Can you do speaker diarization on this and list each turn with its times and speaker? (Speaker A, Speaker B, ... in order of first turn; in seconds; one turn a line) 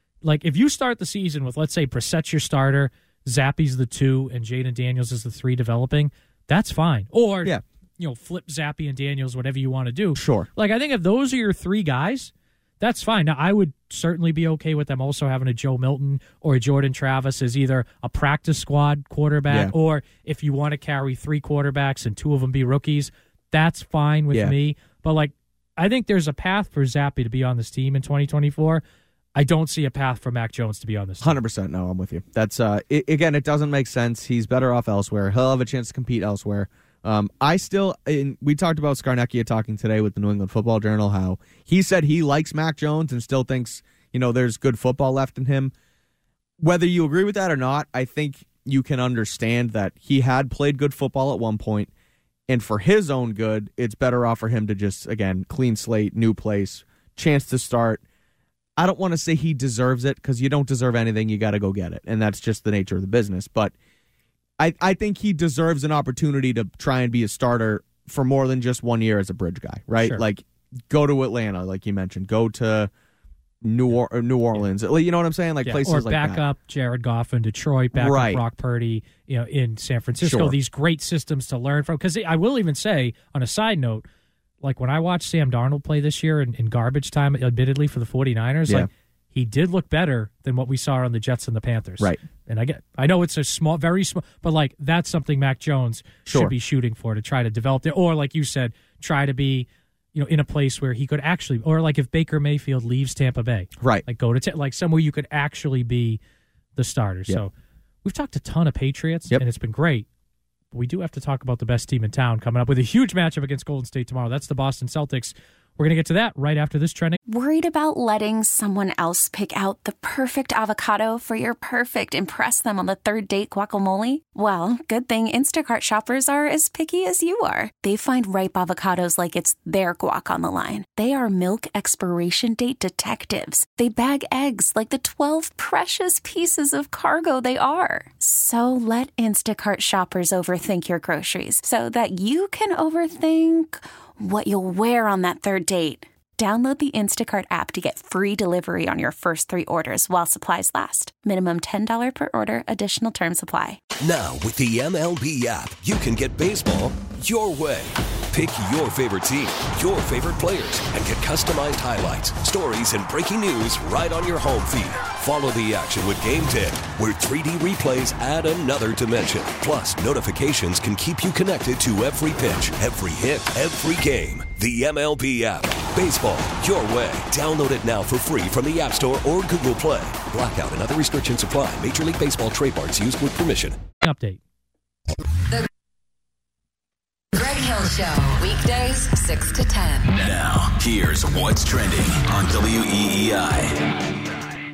Speaker A: 0.2-28.8
Speaker B: 10.1-10.5
Speaker A: 29.3-31.4
Speaker B: 31.2-45.7
Speaker B: 46.6-51.9
Speaker B: 52.5-58.0
Speaker B: 58.8-63.7
Speaker B: 64.6-72.9
Speaker B: 73.6-76.4
Speaker A: 75.6-84.0
Speaker B: 77.9-78.4
Speaker B: 80.2-80.5
Speaker A: 84.6-106.2
Speaker B: 96.2-96.5
Speaker B: 103.8-104.0
Speaker A: 106.8-107.5
Speaker A: 108.0-110.1
Speaker A: 110.7-117.2
Speaker C: 117.3-153.8
Speaker D: 154.0-183.8
Speaker A: 184.0-184.4
Speaker E: 187.3-190.0
Speaker F: 190.1-193.8